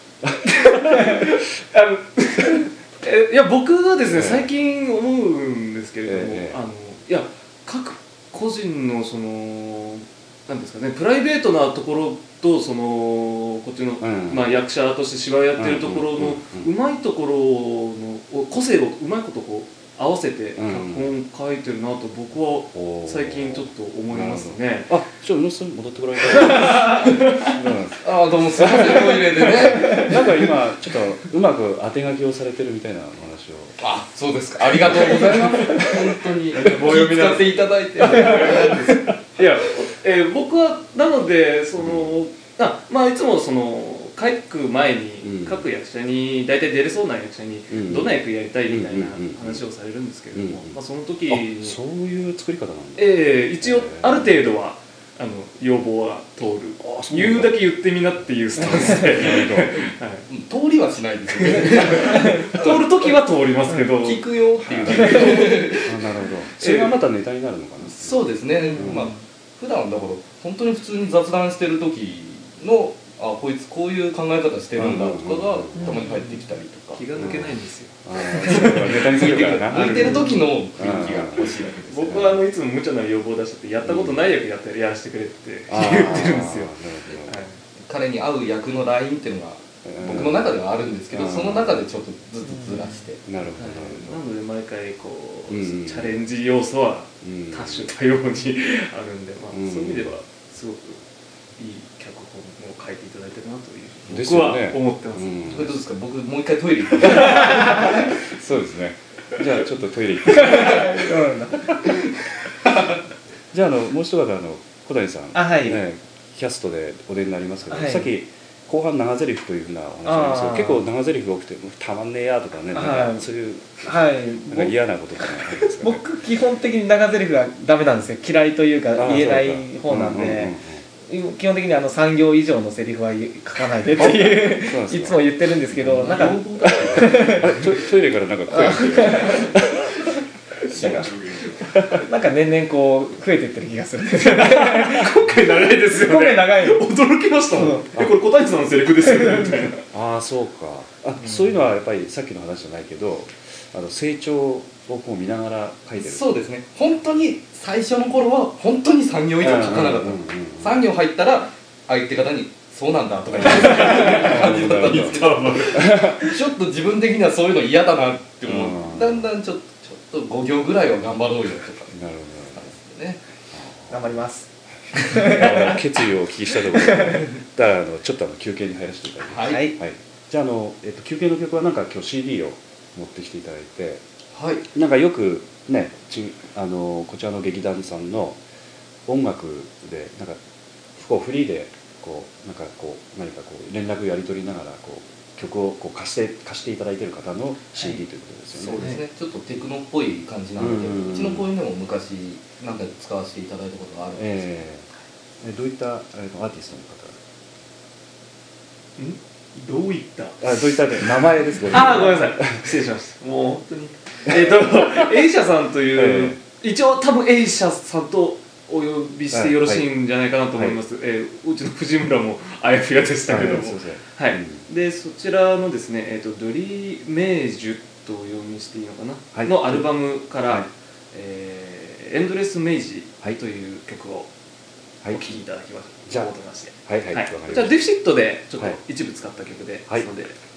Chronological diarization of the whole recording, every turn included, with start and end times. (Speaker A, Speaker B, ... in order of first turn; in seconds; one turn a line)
Speaker A: 0.2-1.3
Speaker B: 0.5-25.0
Speaker A: 4.1-4.5
Speaker A: 6.0-6.6
Speaker A: 14.0-14.5
Speaker A: 15.6-16.7
Speaker A: 20.6-21.1
Speaker A: 22.7-33.8
Speaker B: 26.3-27.6
Speaker C: 28.0-30.5
Speaker C: 33.8-39.2
Speaker A: 34.7-35.9
Speaker A: 36.6-37.5
Speaker A: 38.2-38.5
Speaker B: 39.3-51.8
Speaker A: 41.8-42.2
Speaker A: 45.2-45.7
Speaker A: 47.7-49.6
Speaker A: 50.3-54.5
Speaker B: 53.0-60.3
Speaker A: 56.8-57.6
Speaker A: 58.5-59.9
Speaker C: 60.3-63.1
Speaker B: 61.4-64.2
Speaker C: 64.0-66.2
Speaker A: 64.6-69.1
Speaker B: 66.6-66.9
Speaker C: 67.8-77.1
Speaker D: 68.7-69.1
Speaker A: 74.8-76.0
Speaker B: 76.9-87.6
Speaker A: 77.2-81.5
Speaker C: 78.3-82.4
Speaker A: 83.8-84.3
Speaker A: 85.7-87.5
Speaker C: 87.8-93.2
Speaker A: 89.8-90.6
Speaker A: 91.1-91.8
Speaker A: 93.2-94.2
Speaker B: 93.5-101.0
Speaker A: 95.5-96.2
Speaker A: 97.2-97.9
Speaker A: 99.5-100.2
Speaker B: 101.6-105.7
Speaker A: 104.1-105.8
Speaker C: 105.5-108.2
Speaker A: 107.0-111.2
Speaker D: 110.3-111.8
Speaker A: 113.5-126.1
Speaker D: 115.3-115.8
Speaker D: 117.7-118.1
Speaker D: 120.0-120.8
Speaker D: 122.7-123.2
Speaker D: 123.8-124.8
Speaker D: 125.7-137.5
Speaker A: 128.9-130.8
Speaker A: 133.9-140.0
Speaker C: 135.9-137.8
Speaker D: 138.5-139.6
Speaker D: 140.7-141.1
Speaker A: 140.7-141.1
Speaker A: 141.6-142.0
Speaker D: 142.0-145.3
Speaker B: 144.1-149.8
Speaker D: 145.9-146.9
Speaker D: 147.5-147.9
Speaker A: 149.9-156.2
Speaker B: 151.2-151.5
Speaker C: 156.0-172.0
Speaker A: 159.4-160.9
Speaker A: 163.3-165.2
Speaker B: 163.3-166.1
Speaker A: 165.7-166.3
Speaker A: 168.4-169.3
Speaker A: 171.9-172.8
Speaker C: 172.5-173.2
Speaker A: 173.5-174.2
Speaker D: 173.9-175.7
Speaker A: 174.9-184.0
Speaker C: 179.2-179.7
Speaker D: 179.4-179.8
Speaker C: 184.3-184.6
Speaker A: 184.7-188.4
Speaker A: 189.1-190.4
Speaker A: 190.9-198.9
Speaker C: 198.5-204.4
Speaker B: 198.7-199.0
Speaker A: 200.6-201.5
Speaker A: 204.2-204.9
Speaker A: 205.4-207.2
Speaker B: 209.0-234.3
Speaker A: 210.4-212.6
Speaker A: 215.9-216.4
Speaker A: 219.3-219.9
Speaker A: 220.5-220.8
Speaker A: 223.3-224.7
Speaker A: 229.3-230.7
Speaker A: 235.0-235.3
Speaker B: 235.1-240.4
Speaker A: 236.1-237.8